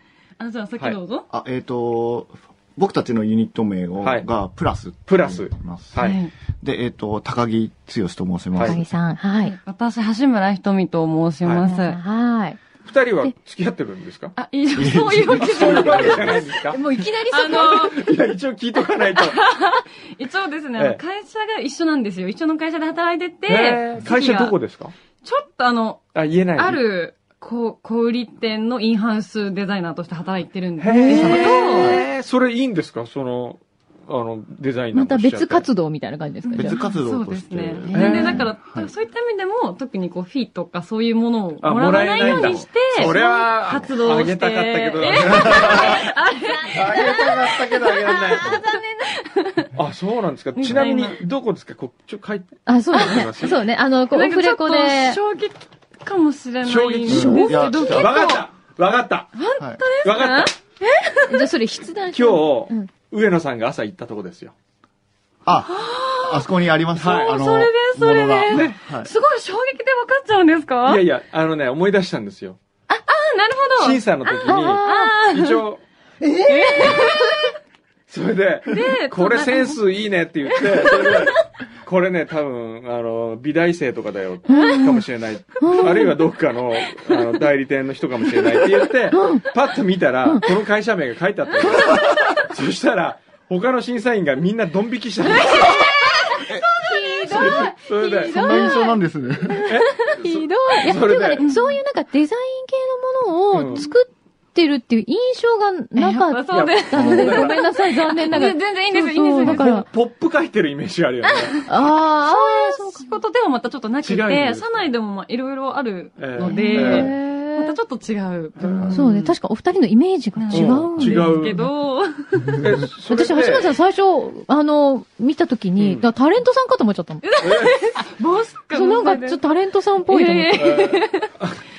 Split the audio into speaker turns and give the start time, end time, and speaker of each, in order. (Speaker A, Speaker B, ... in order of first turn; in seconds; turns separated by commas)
Speaker A: 0.4-1.2, Speaker B: 1.3-6.0, Speaker C: 4.0-4.3, Speaker C: 5.0-6.2, Speaker A: 6.0-6.3, Speaker B: 6.6-8.8, Speaker C: 8.5-8.8, Speaker D: 8.6-9.5, Speaker A: 9.4-12.0, Speaker D: 11.6-12.6, Speaker C: 12.8-14.3, Speaker A: 14.3-16.6, Speaker B: 14.7-16.4, Speaker C: 15.3-16.8, Speaker D: 16.5-18.0, Speaker A: 17.3-17.9, Speaker C: 17.4-19.4, Speaker A: 19.0-24.6, Speaker C: 23.5-24.9, Speaker A: 25.2-26.0, Speaker C: 26.1-26.8, Speaker A: 26.6-32.0, Speaker C: 30.8-35.7, Speaker D: 30.9-31.5, Speaker B: 31.1-32.0, Speaker D: 34.9-36.8, Speaker A: 36.4-49.7, Speaker B: 36.6-38.9, Speaker D: 37.9-38.5, Speaker C: 37.9-38.4, Speaker C: 41.6-46.1, Speaker D: 42.0-42.6, Speaker B: 45.3-45.6, Speaker D: 45.7-49.2, Speaker C: 46.7-48.6, Speaker C: 49.7-53.6, Speaker A: 50.5-51.2, Speaker D: 52.6-55.2, Speaker A: 53.0-53.3, Speaker A: 54.1-58.4, Speaker C: 56.6-59.3, Speaker B: 57.1-58.1, Speaker A: 59.4-61.5, Speaker C: 60.0-60.5, Speaker D: 61.3-62.9, Speaker C: 62.1-64.5, Speaker B: 65.4-69.1, Speaker A: 65.5-71.0, Speaker C: 66.9-67.4, Speaker C: 68.5-68.8, Speaker C: 70.8-72.6, Speaker A: 72.9-75.6, Speaker C: 73.8-75.8, Speaker D: 74.5-75.2, Speaker D: 76.3-77.4, Speaker A: 76.5-77.5, Speaker C: 78.1-96.0, Speaker A: 78.7-79.8, Speaker A: 80.6-81.3, Speaker D: 84.5-85.0, Speaker D: 85.6-86.2, Speaker A: 85.7-85.9, Speaker D: 89.1-89.5, Speaker D: 91.7-92.1, Speaker D: 95.3-109.8, Speaker C: 97.2-98.8, Speaker B: 98.2-99.7, Speaker C: 99.7-101.5, Speaker A: 101.4-101.8, Speaker C: 103.5-103.8, Speaker A: 106.0-109.8, Speaker C: 106.5-107.5, Speaker C: 109.4-111.5, Speaker A: 111.2-111.7, Speaker D: 111.7-113.1, Speaker A: 112.2-119.3, Speaker C: 114.0-114.8, Speaker C: 116.2-117.1, Speaker D: 116.4-117.8, Speaker C: 118.6-119.0, Speaker D: 118.9-121.4, Speaker A: 120.3-122.7, Speaker C: 120.5-121.7, Speaker C: 122.6-123.8, Speaker D: 123.1-127.2, Speaker C: 125.8-126.1, Speaker A: 127.2-129.4, Speaker C: 127.4-127.8, Speaker D: 128.7-131.1, Speaker A: 130.1-131.0, Speaker C: 130.5-131.6